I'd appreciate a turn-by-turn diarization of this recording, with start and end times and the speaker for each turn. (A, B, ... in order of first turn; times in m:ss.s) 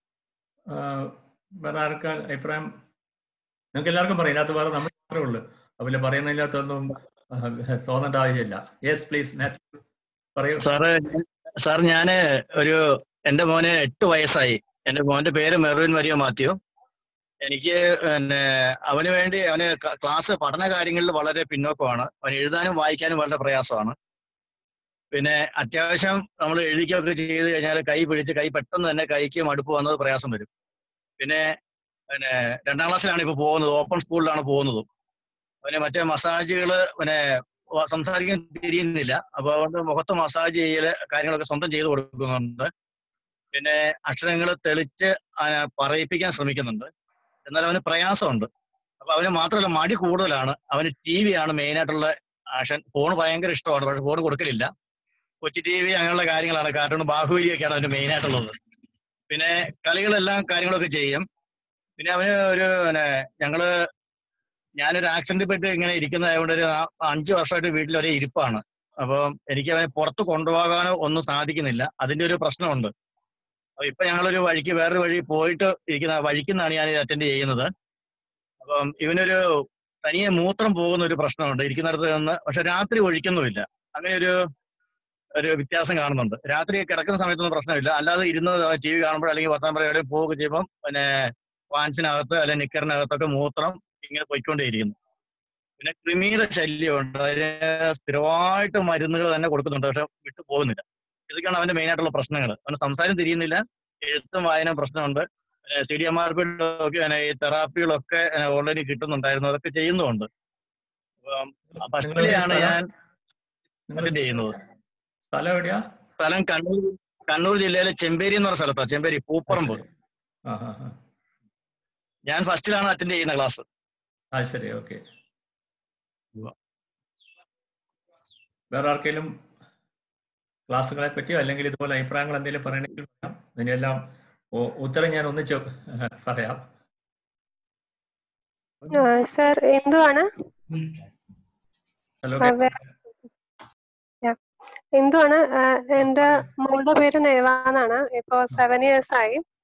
0:00.7-0:02.7 A
0:03.7-0:09.8 A
0:10.4-0:10.7 A
0:10.6-0:12.8 B
0:13.3-0:16.6 B
0:17.5-0:24.0 B
0:25.1-0:30.5 B
0:31.2-0:31.5 B
0:32.1-0:34.9 B
0:35.6-0:37.2 B
0:37.8-0:42.7 B
0:43.5-0:46.9 B
0:47.5-0:48.5 B
0:49.0-0:54.7 B
0:55.4-0:58.6 B
0:59.3-1:01.2 B
1:02.0-1:03.7 B
1:04.8-1:12.9 B
1:13.8-1:17.7 B
1:18.6-1:19.4 B
1:20.0-1:24.3 B
1:25.4-1:35.0 B
1:35.8-1:50.3 B
1:51.3-1:52.8 B
1:51.8-1:52.8 A
1:53.9-1:54.6 A
1:54.0-1:54.5 B
1:55.3-1:55.8 A
1:56.2-1:59.8 B
1:59.5-1:59.9 A
2:00.5-2:01.0 A
2:02.3-2:03.6 B
2:04.3-2:05.0 A
2:08.7-2:09.4 A
2:10.7-2:14.0 A
2:14.5-2:16.7 A
2:18.9-2:20.3 C
2:22.2-2:22.7 A
2:22.4-2:22.8 C
2:25.0-2:29.4 C
2:26.0-2:26.5 A